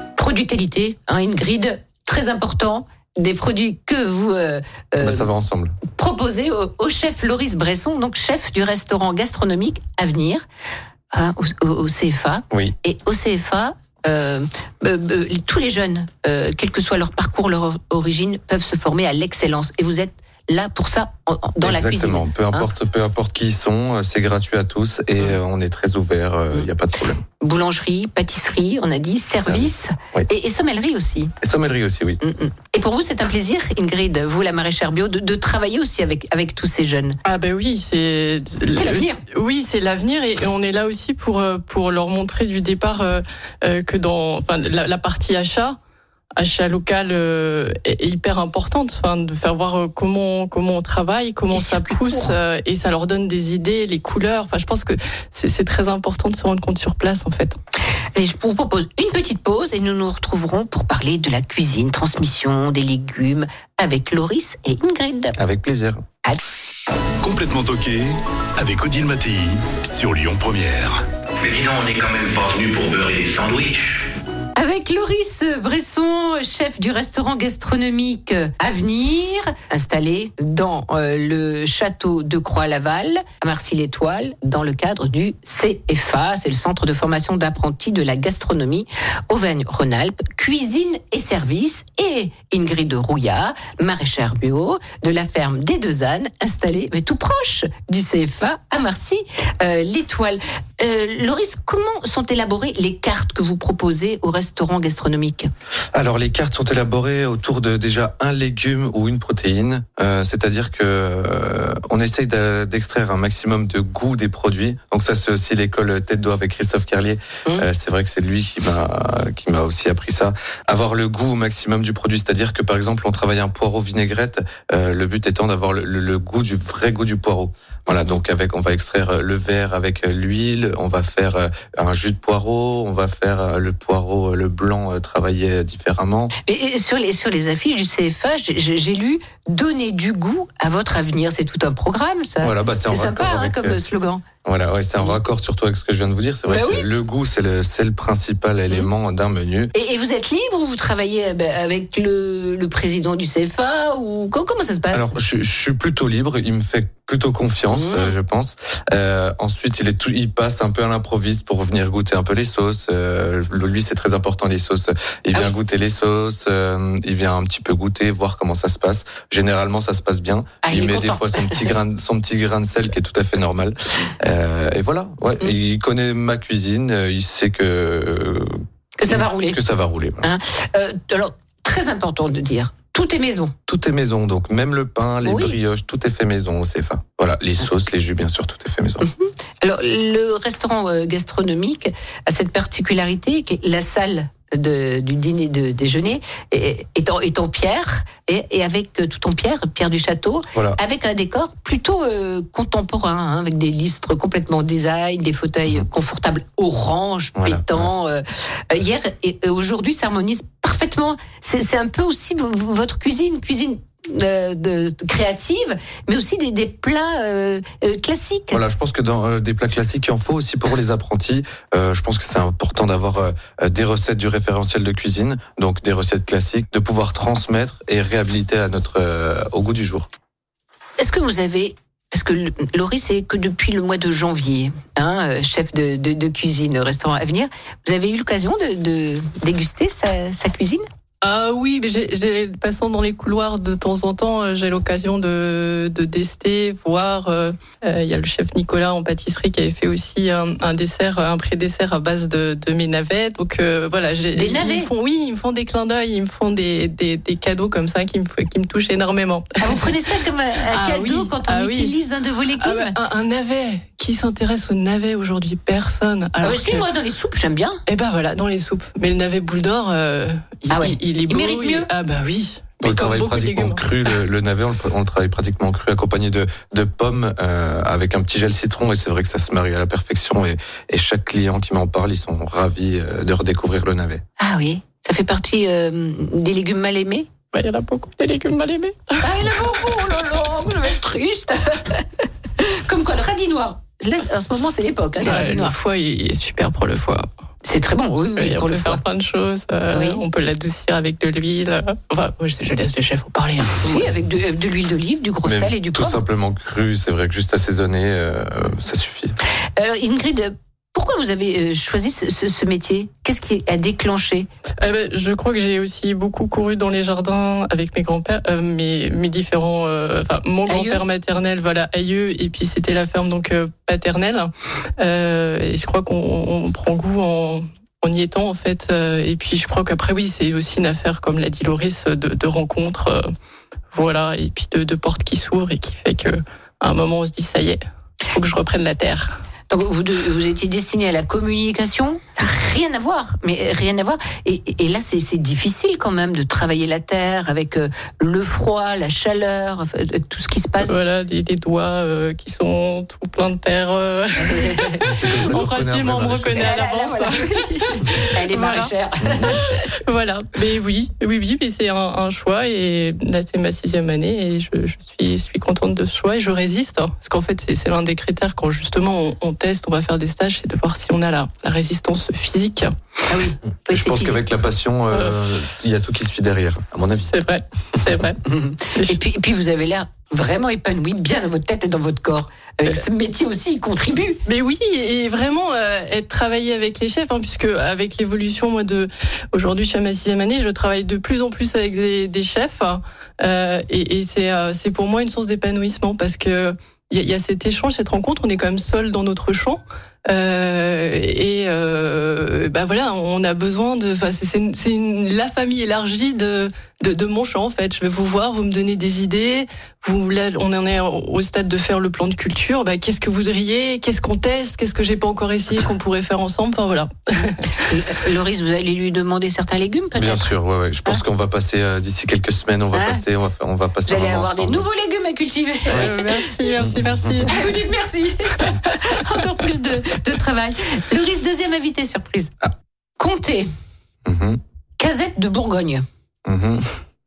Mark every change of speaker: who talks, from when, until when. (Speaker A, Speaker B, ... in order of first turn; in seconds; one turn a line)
Speaker A: 0.2-5.3
Speaker B: 5.0-5.8
Speaker A: 5.9-10.4
Speaker A: 11.1-22.7
Speaker B: 21.6-27.2
Speaker A: 27.4-31.3
Speaker B: 29.4-30.3
Speaker B: 31.4-32.2
Speaker A: 32.2-37.2
Speaker C: 37.2-45.8
Speaker A: 38.7-39.2
Speaker C: 46.4-57.6
Speaker A: 51.5-52.3
Speaker A: 58.1-65.4
Speaker B: 65.4-66.0
Speaker D: 67.2-71.0
Speaker E: 71.4-74.0
Speaker A: 74.5-105.5
Speaker B: 105.9-136.3
Speaker A: 136.4-144.2
Speaker B: 142.4-143.8
Speaker B: 144.4-149.7
Speaker A: 146.5-146.8
Speaker A: 149.7-155.1
Speaker B: 154.9-180.3
Speaker A: 157.7-158.1
Speaker A: 170.6-171.7
Speaker A: 179.0-179.6
Speaker A: 180.2-183.5
Speaker B: 183.7-189.0
Speaker A: 185.2-185.6
Speaker A: 189.0-218.6
Speaker B: 207.3-207.9
Speaker B: 218.5-230.1
Speaker A: 231.0-240.8
Speaker C: 241.2-260.1
Speaker A: 254.3-254.9
Speaker A: 259.6-262.9
Speaker C: 260.7-261.9
Speaker C: 262.6-266.8
Speaker A: 266.4-267.8
Speaker C: 267.9-273.8
Speaker A: 270.7-271.9
Speaker B: 272.8-284.2
Speaker A: 284.4-287.3
Speaker C: 287.5-290.2
Speaker A: 289.2-295.7
Speaker C: 295.2-297.2
Speaker A: 297.6-299.0
Speaker C: 298.4-304.1
Speaker A: 299.9-300.2
Speaker A: 303.7-306.2
Speaker B: 305.4-309.4
Speaker A: 309.8-314.5
Speaker C: 314.8-333.3
Speaker A: 320.7-321.0
Speaker C: 333.9-337.8
Speaker C: 338.3-339.4
Speaker A: 339.7-351.0
Speaker C: 350.8-358.9
Speaker A: 354.4-355.0
Speaker B: 355.0-356.8
Speaker A: 356.6-359.8
Speaker B: 359.2-359.6
Speaker C: 359.6-372.9
Speaker A: 373.3-374.4
Speaker B: 373.9-377.3
Speaker C: 377.2-378.4
Speaker A: 378.4-384.4
Speaker C: 384.4-417.6
Speaker A: 417.8-420.5
Speaker B: 420.1-424.9
Speaker A: 422.9-423.2
Speaker A: 424.1-426.6
Speaker C: 425.9-427.8
Speaker B: 426.8-427.5
Speaker A: 427.4-432.5
Speaker A: 433.2-433.7
Speaker B: 434.2-434.6
Speaker A: 435.0-436.0
Speaker B: 436.4-437.0